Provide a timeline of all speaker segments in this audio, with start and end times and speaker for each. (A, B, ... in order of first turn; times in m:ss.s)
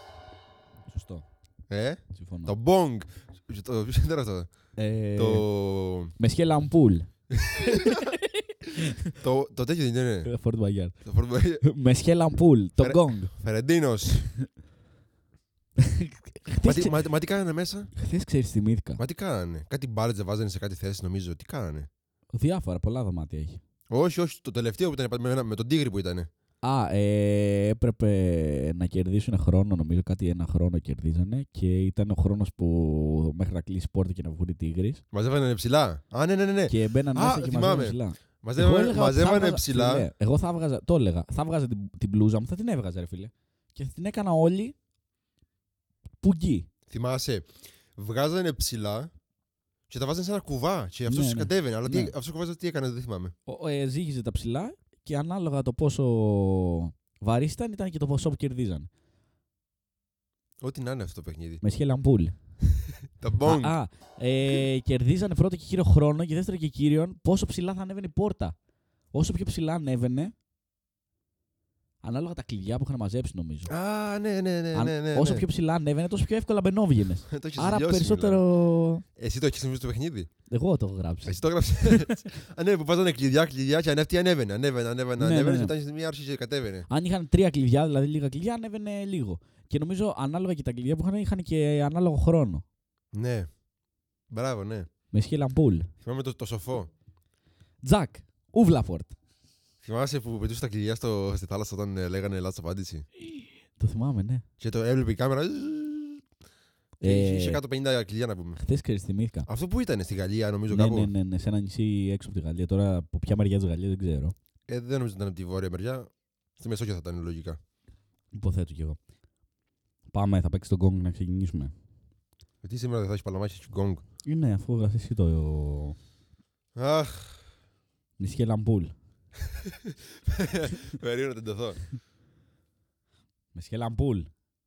0:00.9-0:01.2 A
0:01.7-0:04.5 B
0:02.1-0:02.5 A
0:04.8-0:05.4 A
0:05.2-0:06.1 B
0:06.2-0:09.1 A
0:07.3-0:08.0 B
0:09.2-0:10.3 B
0:10.2-0:11.0 A
0:11.0-0:11.6 B
0:11.6-0:13.3 A
0:12.8-0:14.3 B
0:15.8-0:17.0 A
0:16.6-0:17.9 B
0:18.0-0:19.0 A
0:19.0-0:21.9 B
0:22.3-0:23.6 A
0:23.9-0:26.3 B
0:26.6-0:35.0 A
0:35.1-0:40.1 B
0:36.7-0:44.7 A
0:46.2-0:46.7 A
0:46.9-0:49.1 B
0:49.9-0:53.3 B
0:51.1-0:52.1 A
0:53.5-0:58.9 A
1:00.6-1:01.6 B
1:01.6-1:02.3 A
1:03.2-1:03.8 B
1:03.4-1:08.5 A
1:09.1-1:10.3 A
1:12.0-1:13.7 A
1:13.7-1:15.4 B
1:14.7-1:19.0 A
1:17.3-1:18.4 B
1:19.2-1:20.3 B
1:20.5-1:22.2 A
1:21.2-1:26.9 B
1:25.2-1:25.7 A
1:26.9-1:32.6 A
1:33.1-1:33.5 B
1:34.3-1:34.9 B
1:35.1-1:35.9 A
1:36.0-1:36.9 B
1:37.8-1:39.1 A
1:39.8-1:43.0 B
1:43.3-1:44.4 A
1:44.6-1:46.2 B
1:47.0-1:47.6 A
1:47.0-1:48.6 B
1:48.6-1:49.5 A
1:49.5-1:51.1 B
1:50.7-1:54.3 A
1:54.7-1:57.6 B
1:58.3-1:59.0 A
2:00.1-2:01.7 A
2:02.6-2:04.0 B
2:04.2-2:06.0 A
2:06.8-2:07.4 B
2:08.2-2:08.9 A
2:09.6-2:11.8 B
2:13.5-2:14.3 A